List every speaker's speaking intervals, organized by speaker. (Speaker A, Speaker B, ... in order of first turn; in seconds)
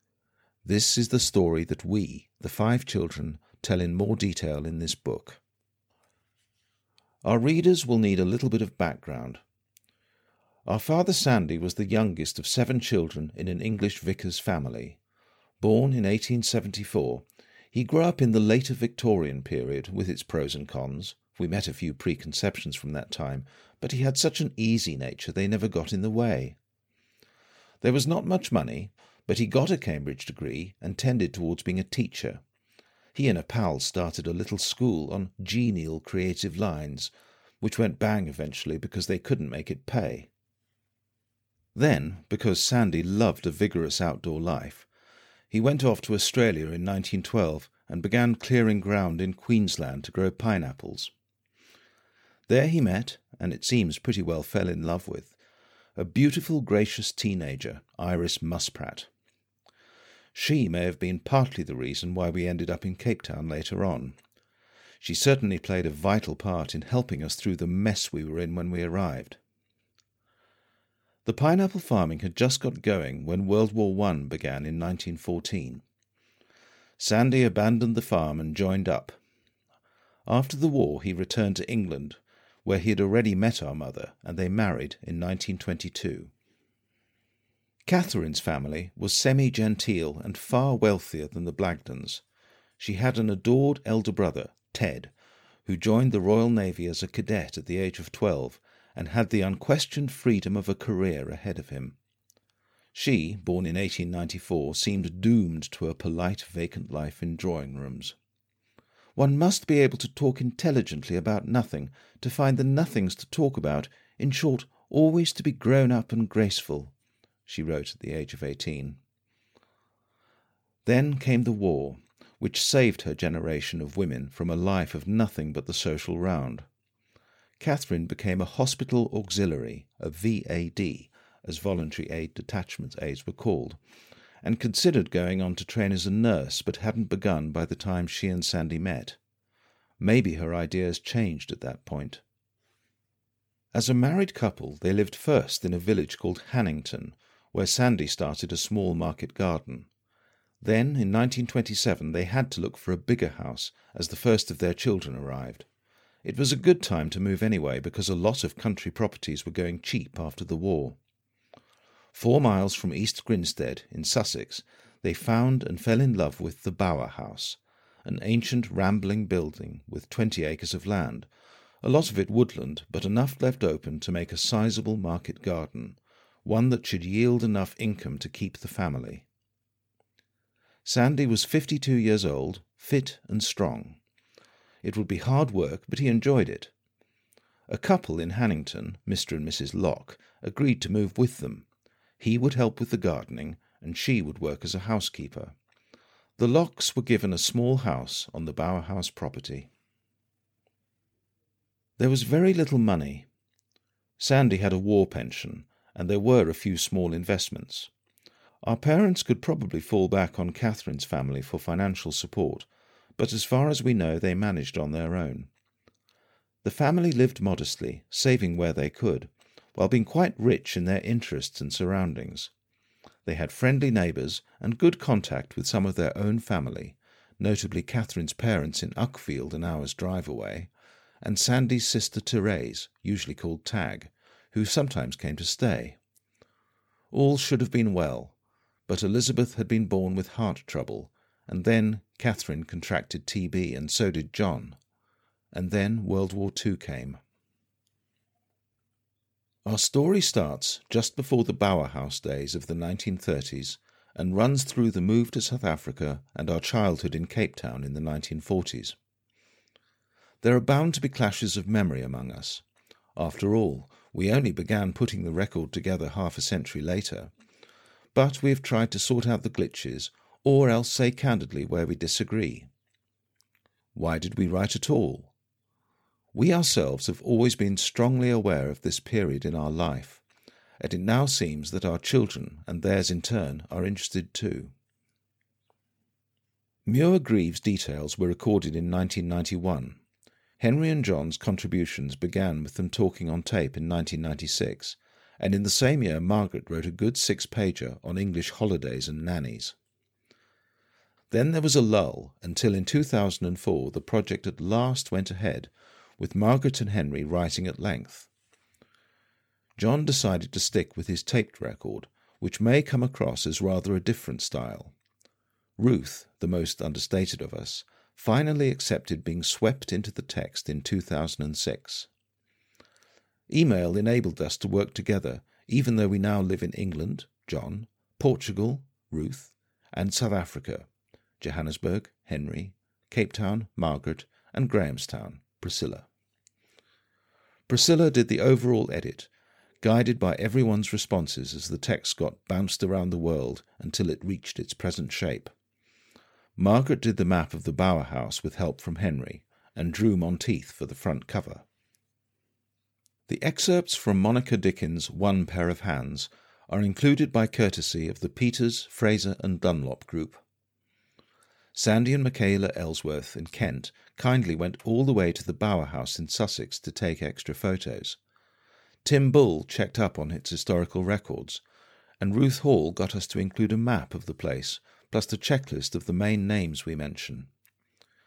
Speaker A: 0.6-5.4, 7.2-9.4, 10.7-15.0, 15.6-26.6, 27.8-32.4, 33.1-40.3, 41.7-44.9, 45.5-51.1, 52.5-55.4, 56.0-59.1, 60.3-64.2, 65.0-69.4, 71.2-75.8, 77.0-79.2, 80.3-86.3, 87.8-92.2, 92.8-95.1, 95.6-102.0, 102.9-108.2, 109.2-116.9, 117.5-119.0, 120.8-126.7, 127.6-133.8, 134.4-139.2, 140.0-142.2, 143.7-149.9, 150.6-155.7, 156.2-161.0, 162.1-171.3, 171.8-179.2, 180.8-184.0, 184.8-186.7, 187.7-191.7, 192.2-195.5, 196.4-199.7, 202.0-203.3, 204.2-207.9, 208.6-215.5, 216.6-222.5, 223.2-230.7, 231.2-236.0, 237.1-238.3, 238.9-244.8, 245.5-247.2, 249.6-259.0, 260.4-262.6, 263.1-267.3, 268.1-272.7, 273.9-275.3, 276.3-280.2, 280.8-284.7, 286.9-290.0, 290.6-299.8, 301.3-308.3, 309.8-314.9, 315.8-322.1, 323.5-330.9, 331.4-336.1, 337.7-339.3, 339.8-345.5, 346.6-351.6, 353.3-360.4, 361.7-368.2, 369.0-371.6, 372.2-377.5